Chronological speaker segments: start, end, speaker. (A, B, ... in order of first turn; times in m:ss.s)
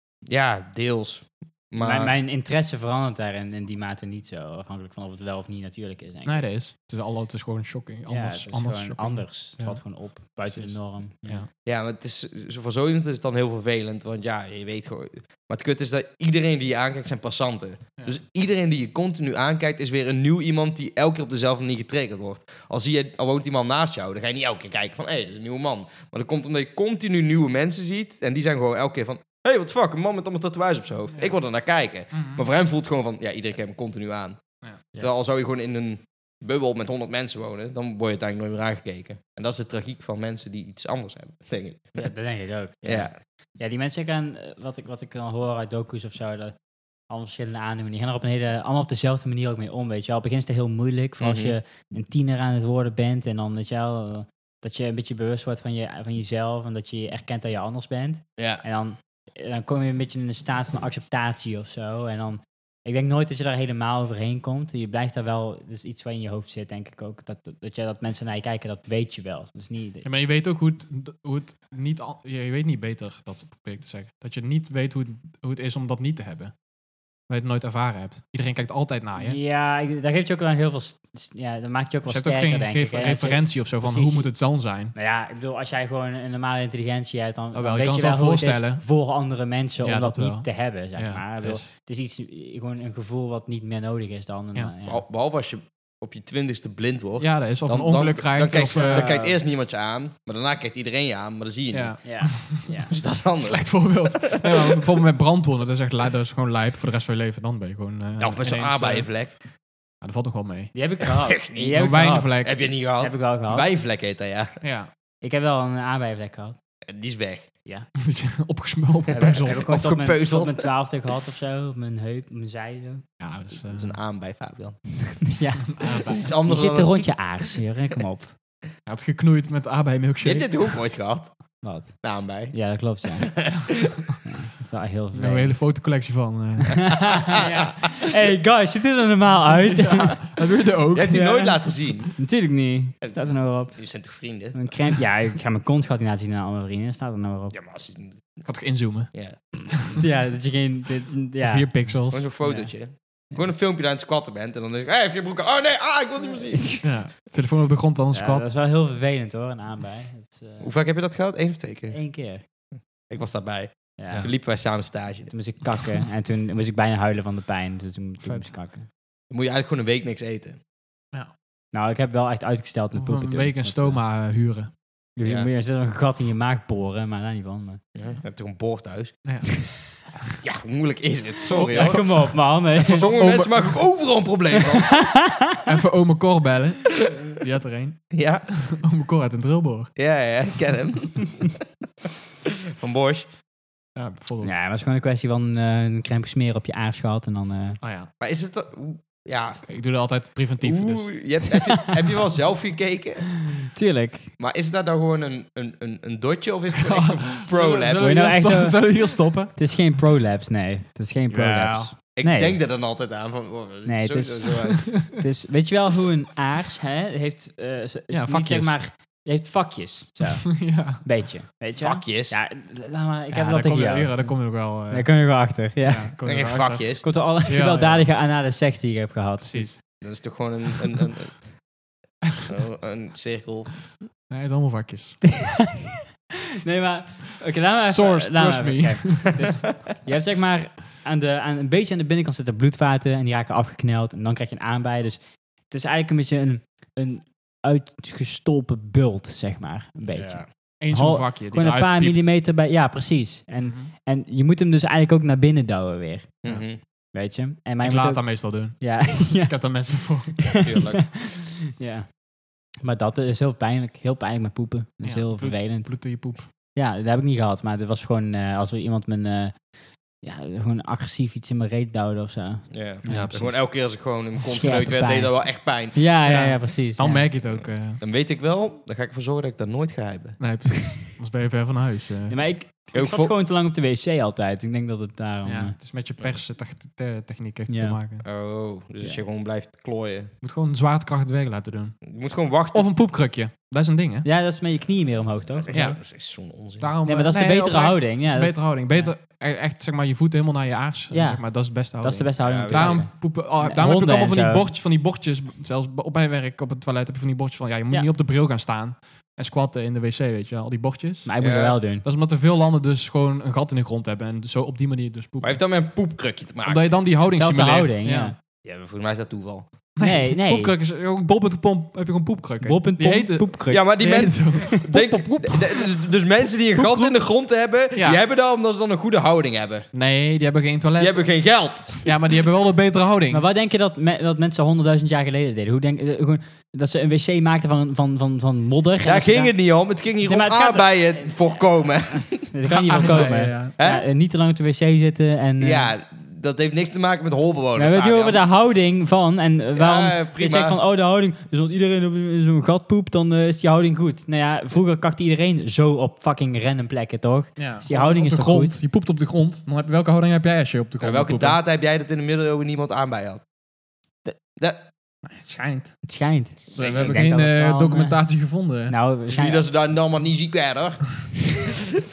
0:00.2-0:02.2 A
0:01.8-0:06.5 B
0:06.2-0:11.5 C
0:08.1-0:11.5 B
0:11.6-0:34.4 A
0:32.1-0:32.4 C
0:35.0-0:42.1 A
0:42.0-0:46.6 B
0:42.8-0:43.1 A
0:47.1-1:10.0 B
0:51.2-0:51.6 A
0:58.4-0:58.6 A
1:10.0-1:16.5 C
1:17.3-1:19.4 C
1:19.2-1:24.3 B
1:22.1-1:24.9 C
1:24.9-1:35.0 B
1:27.5-1:28.8 C
1:29.8-1:31.7 C
1:34.8-1:42.0 A
1:37.2-1:39.2 C
1:38.5-1:39.4 B
1:41.7-1:42.8 C
1:42.0-1:42.9 B
1:42.9-1:44.9 A
1:43.4-1:49.2 C
1:48.2-1:49.3 A
1:50.0-1:50.7 C
1:50.7-1:53.7 B
1:51.3-1:54.5 A
1:51.7-1:52.5 C
1:54.6-1:54.9 C
1:55.2-1:56.6 B
1:56.8-1:57.5 A
1:58.0-1:59.6 C
1:59.1-2:03.1 B
1:59.1-2:00.7 A
2:03.2-2:04.0 C
2:03.7-2:05.2 A
2:05.2-2:08.3 B
2:05.7-2:06.3 C
2:06.0-2:07.1 A
2:08.8-2:10.7 C
2:10.2-2:12.6 A
2:11.6-2:13.6 B
2:13.4-2:13.9 A
2:14.2-2:15.6 B
2:15.1-2:17.0 C
2:16.8-2:20.4 B
2:17.1-2:17.7 A
2:19.5-2:21.3 C
2:20.9-2:22.1 A
2:21.1-2:23.9 B
2:23.0-2:24.7 A
2:24.5-2:27.6 B
2:27.5-2:28.4 A
2:28.4-2:29.1 C
2:29.1-2:29.4 A
2:30.0-2:31.7 B
2:31.4-2:32.6 C
2:32.1-2:36.8 A
2:36.5-2:36.9 B
2:36.8-2:38.4 C
2:38.1-2:40.7 B
2:40.6-2:42.0 A
2:41.9-2:42.4 B
2:43.1-2:45.3 A
2:44.0-2:44.3 B
2:45.3-2:48.9 B
2:49.3-2:50.6 A
2:51.7-2:54.0 B
2:52.9-2:54.7 C
2:55.2-2:57.8 B
2:55.2-2:55.5 A
2:57.9-2:59.1 A
2:59.2-3:00.1 C
3:00.4-3:05.1 A
3:01.5-3:02.3 C
3:01.7-3:03.1 B
3:02.9-3:03.9 C
3:04.8-3:05.6 B
3:05.6-3:09.9 C
3:08.1-3:08.5 A
3:10.0-3:11.6 A
3:12.4-3:13.3 A
3:14.0-3:14.5 C
3:14.4-3:17.8 B
3:17.8-3:18.1 C
3:18.2-3:19.6 A
3:19.6-3:21.3 C
3:20.6-3:23.4 A
3:23.7-3:24.3 B
3:24.4-3:28.2 A
3:26.7-3:29.6 C
3:28.0-3:32.6 B
3:31.3-3:31.9 C
3:32.1-3:34.9 A
3:33.8-3:46.1 B
3:38.1-3:38.8 C
3:40.5-3:41.0 C
3:41.8-3:42.4 A
3:43.3-3:48.1 C
3:46.2-3:47.0 A
3:47.0-3:49.7 B
3:49.4-3:49.8 C
3:50.0-3:51.6 A
3:52.5-3:53.9 A
3:54.3-3:55.2 C
3:55.4-3:55.9 B
3:56.6-4:16.4 B
3:57.9-3:59.4 C
4:10.1-4:10.5 A
4:10.8-4:12.2 C
4:13.6-4:13.9 C
4:16.4-4:16.8 A
4:17.1-4:19.6 B
4:17.8-4:20.6 C
4:20.4-4:22.2 B
4:20.6-4:21.2 A
4:22.8-4:25.9 B
4:25.0-4:26.5 C
4:26.7-4:33.6 B
4:32.7-4:36.0 A
4:33.0-4:33.6 C
4:34.4-4:37.3 B
4:36.2-4:38.0 C
4:37.4-4:40.4 A
4:40.4-4:42.4 C
4:42.3-4:45.7 B
4:42.9-4:43.3 A
4:45.4-4:48.2 C
4:47.7-4:48.0 B
4:48.2-4:50.3 A
4:50.4-4:52.0 C
4:52.0-4:52.9 A
4:52.7-4:54.3 C
4:54.2-4:56.0 B
4:55.5-4:56.9 A
4:55.7-4:56.0 C
4:56.8-5:11.3 C
4:57.0-4:59.1 B
5:01.1-5:04.7 B
5:02.4-5:03.1 A
5:11.2-5:12.0 B
5:11.4-5:11.8 A
5:12.0-5:15.6 C
5:15.4-5:16.9 A
5:16.6-5:18.3 C
5:17.3-5:18.4 B
5:18.6-5:19.7 A
5:20.0-5:25.9 C
5:20.0-5:20.7 B
5:22.6-5:23.9 B
5:23.7-5:29.9 A
5:26.7-5:27.4 C
5:27.9-5:28.2 C
5:29.9-5:31.3 C
5:31.0-5:32.2 A
5:32.0-5:33.4 C
5:33.3-5:39.5 B
5:39.0-5:44.0 A
5:40.2-5:41.5 B
5:42.3-5:45.9 B
5:42.6-5:43.7 C
5:45.6-5:48.4 A
5:47.8-5:58.8 B
5:49.7-5:50.8 A
5:57.6-6:01.6 C
6:01.0-6:03.4 A
6:04.6-6:04.9 A
6:05.2-6:06.0 C
6:06.0-6:08.2 B
6:06.7-6:07.2 A
6:06.7-6:08.9 C
6:08.9-6:09.7 B
6:09.3-6:11.7 A